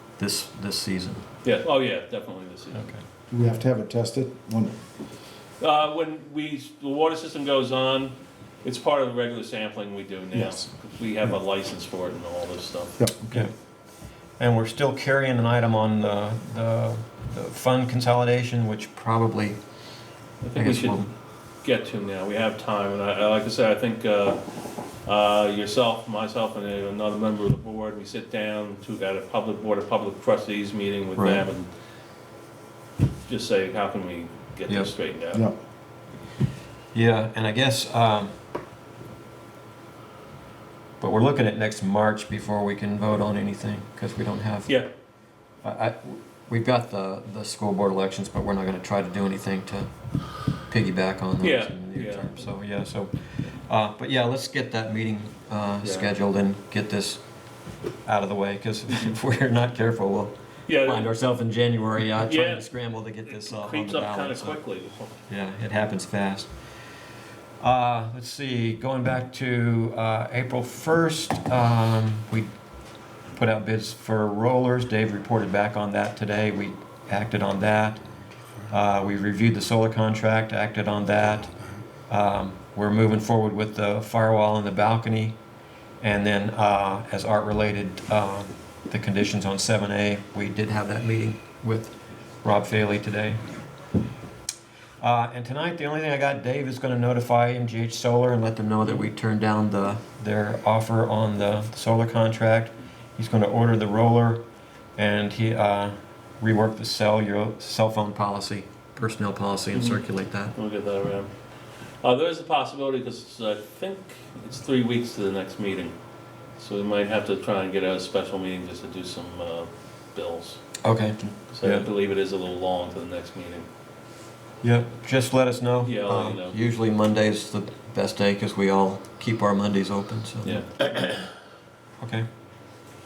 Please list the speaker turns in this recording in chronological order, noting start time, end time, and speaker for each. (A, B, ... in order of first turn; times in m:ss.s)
0:00.2-0:01.2 A
0:01.4-0:02.9 B
0:02.7-0:03.0 A
0:03.3-0:04.8 C
0:05.6-0:13.0 B
0:10.4-0:10.6 C
0:13.0-0:13.3 C
0:14.4-0:19.6 A
0:20.4-0:21.1 B
0:20.6-0:21.1 A
0:21.6-0:24.4 B
0:25.0-0:31.7 B
0:31.2-0:31.4 A
0:33.3-0:35.5 B
0:36.9-0:38.3 A
0:41.0-0:44.8 A
0:45.6-0:49.9 A
0:50.6-0:57.2 A
0:51.4-0:52.4 B
0:55.8-0:56.1 B
0:58.1-1:04.6 A
1:00.7-1:01.1 B
1:02.2-1:02.7 B
1:03.3-1:05.2 B
1:05.3-1:06.5 A
1:07.6-1:12.5 A
1:13.3-1:18.1 A
1:18.7-1:21.6 A
1:22.1-1:25.4 A
1:26.0-1:33.4 A
1:35.0-1:44.4 A
1:45.0-1:50.6 A
1:49.7-1:51.3 B
1:52.0-1:56.0 B
1:56.6-2:00.8 B
2:00.8-2:01.9 A
2:01.5-2:03.7 B
2:04.6-2:10.6 A
2:05.8-2:06.6 B
2:10.4-2:11.0 B
2:12.0-2:12.3 A